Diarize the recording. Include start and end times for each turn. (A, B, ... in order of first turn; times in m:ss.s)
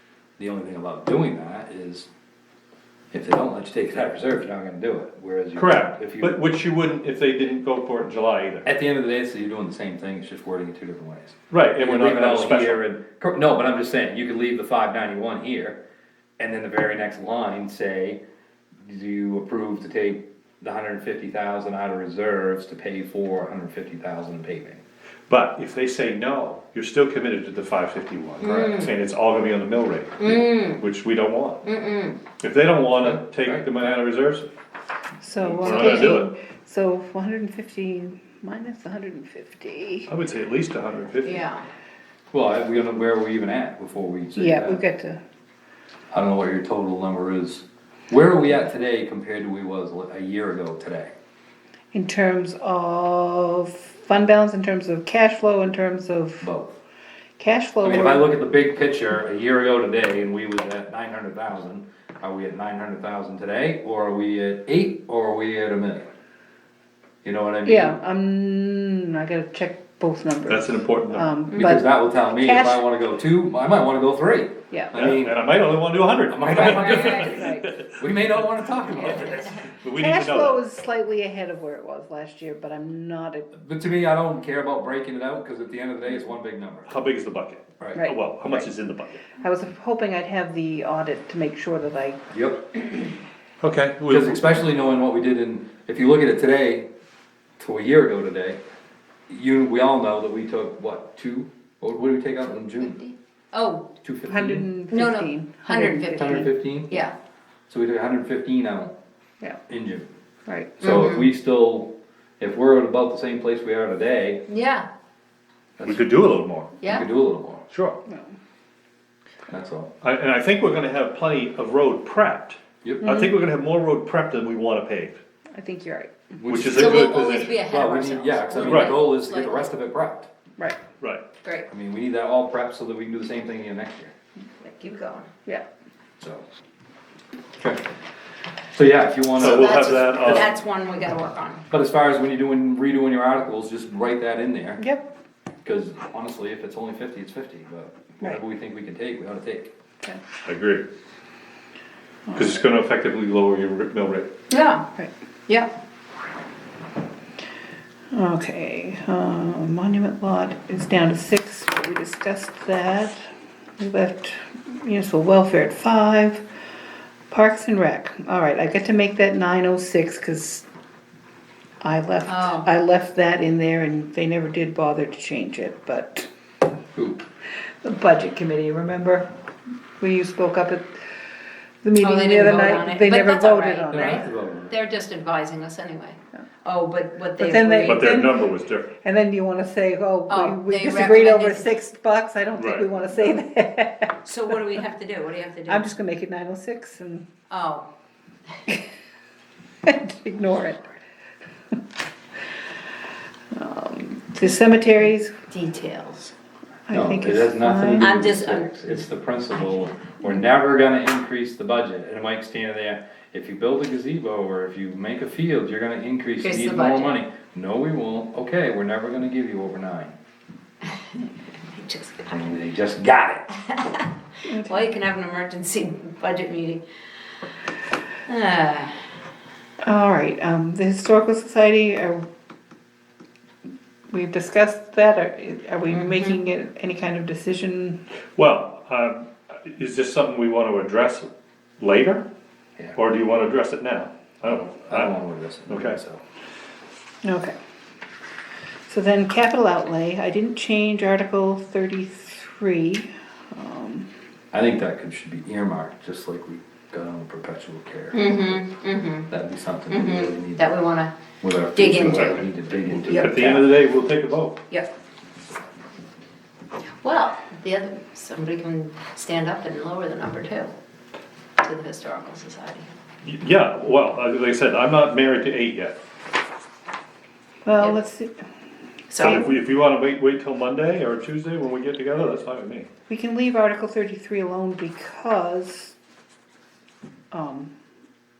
0:00.4-0:02.1 A
0:03.1-0:06.4 A
0:05.6-0:08.7 B
0:08.6-0:15.8 A
0:11.5-0:12.8 B
0:16.4-0:18.2 A
0:18.8-0:24.8 A
0:25.3-0:31.6 B
0:28.4-0:28.9 C
0:30.2-0:30.8 C
0:31.6-0:32.2 C
0:32.4-0:34.5 B
0:33.0-0:33.7 A
0:35.2-0:40.1 D
0:35.6-0:36.3 B
0:35.8-0:36.2 C
0:40.1-0:41.5 B
0:41.2-0:41.6 C
0:42.3-0:44.8 A
0:44.4-0:45.2 D
0:46.1-0:51.1 A
0:51.9-0:56.5 D
0:56.4-0:56.8 A
0:57.4-0:58.3 D
0:57.8-1:06.1 A
1:07.2-1:08.0 A
1:07.6-1:12.9 D
1:10.5-1:11.3 B
1:11.5-1:15.4 A
1:14.7-1:15.0 D
1:15.0-1:17.9 B
1:16.3-1:17.4 A
1:16.5-1:17.4 C
1:16.8-1:17.7 D
1:18.0-1:19.6 A
1:19.8-1:20.6 B
1:20.0-1:23.5 D
1:23.6-1:27.0 A
1:26.9-1:29.3 B
1:27.8-1:28.0 A
1:28.0-1:28.7 D
1:29.4-1:32.3 D
1:32.3-1:32.7 A
1:33.6-1:34.6 B
1:34.1-1:36.9 A
1:37.6-1:38.6 A
1:39.3-1:43.0 A
1:43.0-1:43.9 C
1:44.0-1:44.7 A
1:44.3-1:46.5 D
1:44.9-1:47.1 C
1:46.2-1:47.0 A
1:47.7-1:48.9 A
1:49.7-1:50.1 A
1:50.5-1:50.8 D
1:50.8-1:54.4 A
1:50.8-1:51.3 C
1:54.5-1:54.9 C
1:55.8-1:56.1 A
1:55.8-1:56.7 B
1:56.8-1:57.1 C
1:56.8-1:57.7 A
1:57.7-1:58.0 B
1:58.0-1:58.3 D
1:59.5-1:59.9 A
2:00.0-2:05.2 B
2:03.0-2:03.3 D
2:05.5-2:06.3 D
2:06.4-2:10.3 A
2:06.5-2:07.6 B
2:06.6-2:09.7 C
2:08.6-2:09.0 B
2:11.0-2:11.2 B
2:11.4-2:11.7 C
2:11.7-2:14.1 A
2:14.6-2:15.3 C
2:16.2-2:16.4 A
2:18.7-2:20.5 A
2:19.4-2:20.5 B
2:19.4-2:21.6 C
2:21.7-2:24.8 A
2:24.8-2:25.1 D
2:25.6-2:29.7 A
2:30.4-2:30.9 B
2:32.3-2:32.6 D
2:32.4-2:34.3 B
2:34.5-2:34.8 C
2:38.1-2:43.2 D
2:43.8-2:46.4 D
2:47.3-2:50.6 D
2:51.8-2:56.3 D
2:52.3-2:52.7 C
2:57.0-2:57.2 A
2:57.8-2:59.3 D
3:00.0-3:01.0 D
3:01.8-3:04.3 D
3:02.0-3:08.2 C
3:03.9-3:04.7 A
3:07.4-3:08.4 D
3:07.8-3:08.9 B
3:09.0-3:14.6 D
3:10.3-3:11.7 C
3:12.6-3:12.9 B
3:14.2-3:15.9 C
3:15.7-3:17.3 D
3:17.5-3:17.9 C
3:19.8-3:20.9 D
3:23.5-3:25.3 D
3:25.5-3:26.3 C
3:26.9-3:28.2 D
3:26.9-3:40.2 A
3:28.0-3:28.9 C
3:36.4-3:37.2 C
3:41.7-3:42.6 C
3:42.3-3:43.5 A
3:43.7-3:46.8 C
3:44.4-3:44.9 D
3:48.3-3:49.0 C
3:49.8-3:52.2 D
3:54.1-3:58.0 D
3:55.9-3:56.4 C
3:58.4-4:02.3 B
4:03.0-4:05.1 B
4:04.6-4:06.2 A
4:05.7-4:06.0 B
4:07.2-4:07.5 D
4:08.9-4:14.1 D
4:14.5-4:18.7 A
4:18.1-4:19.3 C
4:19.3-4:20.8 A
4:19.9-4:21.1 C
4:21.4-4:23.7 A
4:21.7-4:22.5 C
4:23.0-4:24.6 B
4:23.1-4:23.6 C
4:27.0-4:30.7 C
4:31.6-4:32.9 C
4:33.2-4:36.0 B
4:37.6-4:38.4 D
4:39.1-4:39.5 C
4:39.1-4:39.5 D
4:39.3-4:42.9 B
4:43.1-4:46.0 D
4:47.3-4:47.7 D